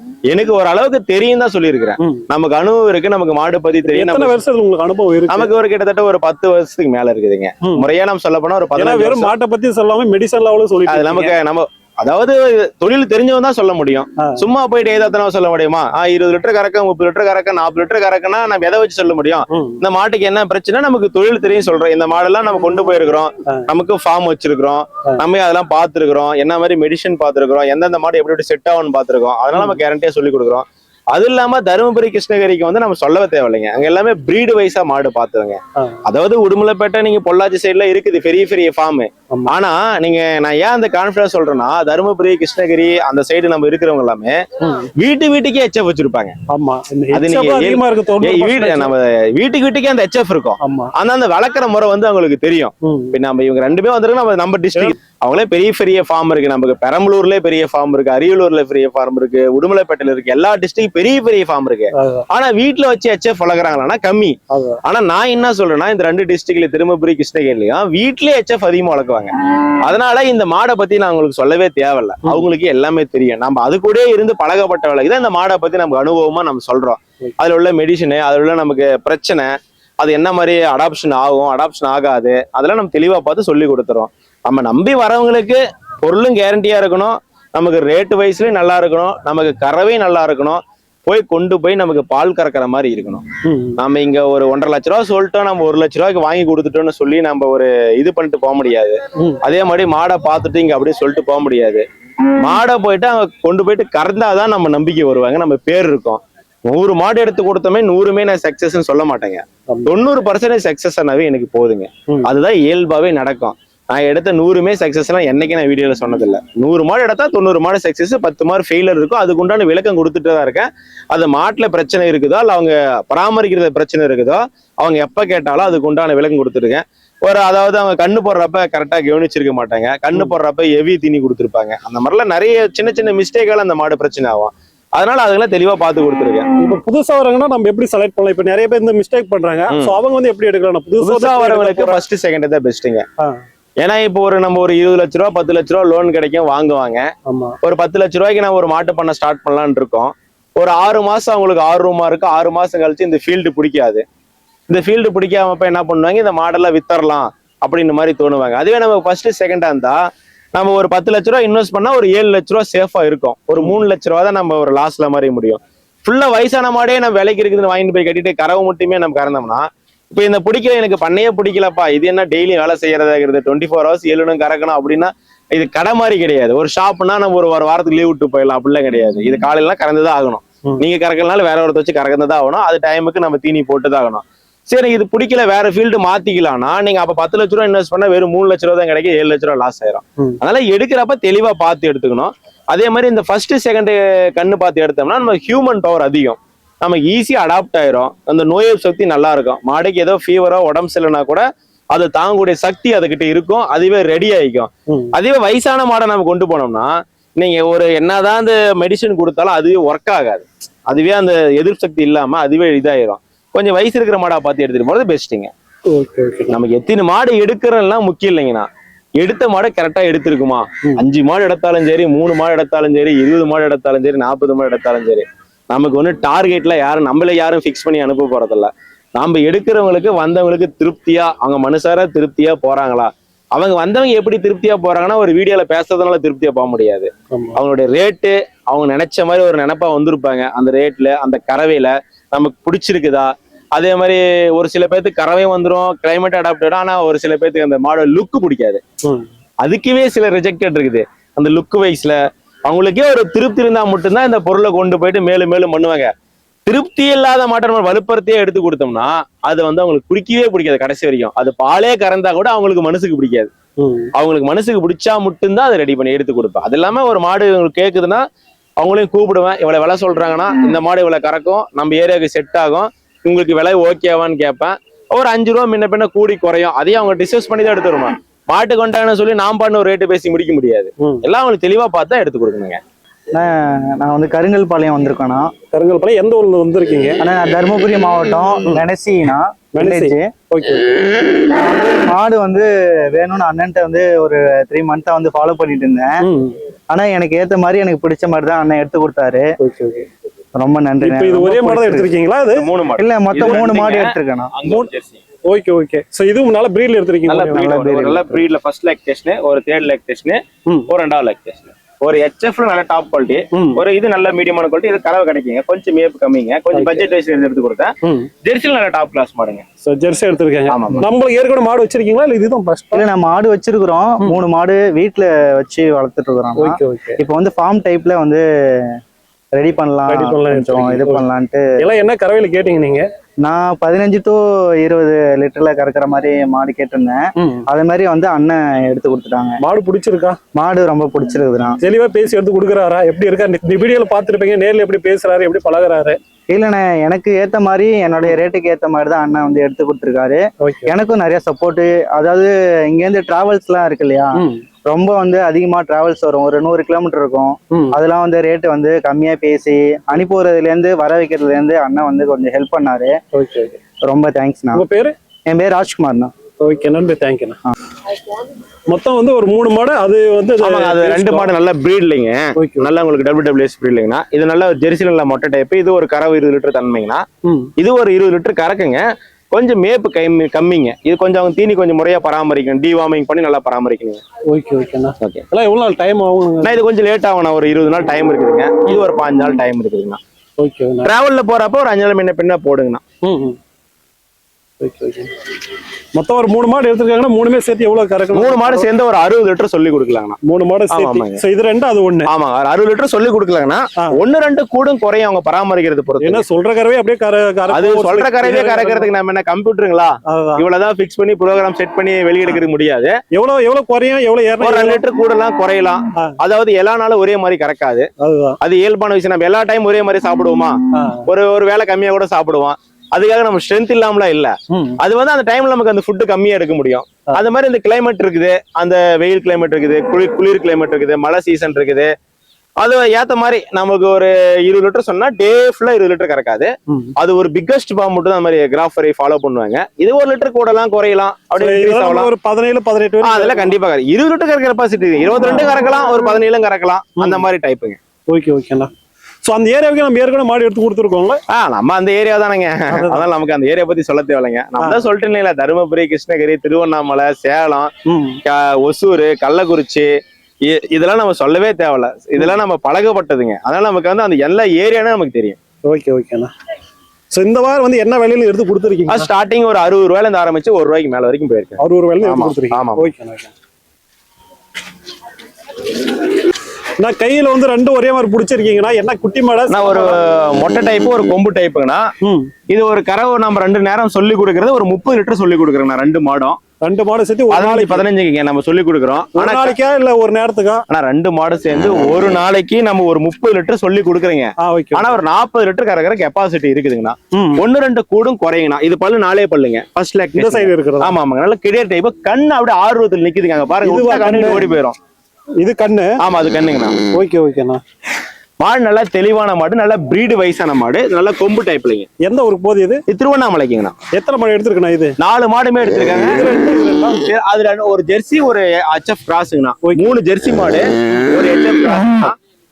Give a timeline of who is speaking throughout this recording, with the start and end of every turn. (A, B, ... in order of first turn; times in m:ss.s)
0:00.3-0:04.4 A
0:03.9-0:05.5 B
0:05.3-0:09.3 A
0:08.8-0:11.4 B
0:10.9-0:44.4 A
0:14.2-0:14.5 B
0:19.5-0:19.8 B
0:29.5-0:29.8 B
0:44.6-0:44.9 B
0:45.0-0:46.4 A
0:46.5-0:48.9 B
0:47.1-1:33.2 A
0:50.6-0:50.9 B
0:52.8-0:53.2 B
1:01.9-1:02.3 B
1:04.5-1:04.8 B
1:33.4-1:33.8 B
1:33.8-1:41.8 A
1:42.4-2:16.5 A
2:16.6-2:22.0 B
2:21.0-2:23.0 A
2:23.8-2:27.1 A
2:27.3-2:27.6 B
2:27.6-2:34.0 A
2:34.7-2:40.0 A
2:40.6-3:35.5 A
3:24.9-3:25.1 B
3:35.9-3:36.6 B
3:36.5-4:08.8 A
3:57.3-3:57.6 B
4:09.6-4:16.1 A
4:16.7-4:23.5 A
4:23.8-4:24.1 B
4:24.2-4:28.2 A
4:28.8-4:42.8 A
4:43.3-4:45.5 C
4:45.7-4:47.2 B
4:47.2-4:50.3 C
4:49.8-4:50.8 B
4:51.4-4:56.2 C
4:56.2-4:56.6 B
4:56.9-4:59.5 C
4:59.6-5:00.1 B
5:00.6-5:02.1 C
5:01.0-5:02.7 B
5:02.5-5:05.2 A
5:03.0-5:04.5 C
5:03.4-5:03.7 B
5:05.5-5:07.8 B
5:07.3-5:19.6 A
5:07.6-5:08.4 C
5:13.5-5:13.8 B
5:16.7-5:17.1 B
5:18.0-5:18.3 B
5:19.8-5:23.0 B
5:20.7-5:21.1 A
5:22.9-5:28.4 C
5:26.6-5:27.2 B
5:29.6-5:31.6 C
5:30.1-5:31.2 B
5:31.8-5:33.0 B
5:33.4-5:39.6 C
5:37.4-5:37.6 B
5:39.6-5:40.4 B
5:40.6-5:41.8 C
5:41.8-5:46.2 B
5:46.5-6:03.2 C
5:50.6-5:50.9 B
5:54.4-5:54.6 B
6:03.3-6:03.8 B
6:04.0-6:04.8 C
6:04.7-6:05.2 B
6:05.5-6:06.3 C
6:06.6-6:07.6 B
6:08.9-6:11.5 B
6:10.6-6:17.2 A
6:12.6-6:12.9 B
6:17.4-6:17.7 B
6:17.8-6:24.2 A
6:24.5-6:26.8 B
6:26.6-6:30.2 A
6:30.6-6:31.1 B
6:31.0-6:33.0 A
6:33.2-6:33.6 B
6:34.8-6:35.3 B
6:36.2-6:38.9 B
6:38.3-6:40.4 A
6:40.4-6:42.3 B
6:40.9-6:41.4 A
6:42.3-6:46.4 A
6:46.2-6:49.1 B
6:47.7-6:53.2 A
6:50.3-6:50.6 B
6:53.3-6:55.0 B
6:54.6-6:58.1 A
6:58.2-6:58.6 B
6:58.6-7:12.1 A
7:00.9-7:01.3 B
7:04.7-7:05.0 B
7:12.8-7:22.3 A
7:21.6-7:23.7 B
7:23.2-7:28.0 A
7:27.2-7:27.5 B
7:28.3-7:28.9 B
7:29.4-7:31.4 B
7:31.5-7:37.9 A
7:32.9-7:33.2 B
7:34.8-7:35.1 B
7:38.1-7:38.4 B
7:38.4-7:40.1 A
7:40.6-7:45.6 A
7:45.8-7:46.5 B
7:47.3-7:49.3 B
7:49.1-7:53.1 A
7:51.8-7:53.5 B
7:57.0-8:00.2 B
7:59.7-8:02.1 A
8:02.2-8:02.5 B
8:02.7-8:06.6 A
8:06.8-8:08.0 B
8:07.5-8:09.8 A
8:09.4-8:10.8 B
8:10.9-8:25.0 A
8:14.6-8:15.2 B
8:17.3-8:17.6 B
8:20.4-8:21.1 B
8:23.8-8:24.7 B
8:25.6-8:26.2 B
8:26.2-8:27.0 A
8:27.1-8:27.8 B
8:28.6-8:32.1 A
8:32.2-8:33.0 B
8:33.1-8:34.0 A
8:34.1-8:35.2 B
8:35.2-8:36.5 A
8:36.3-8:37.2 B
8:37.1-8:42.4 A
8:39.8-8:40.1 B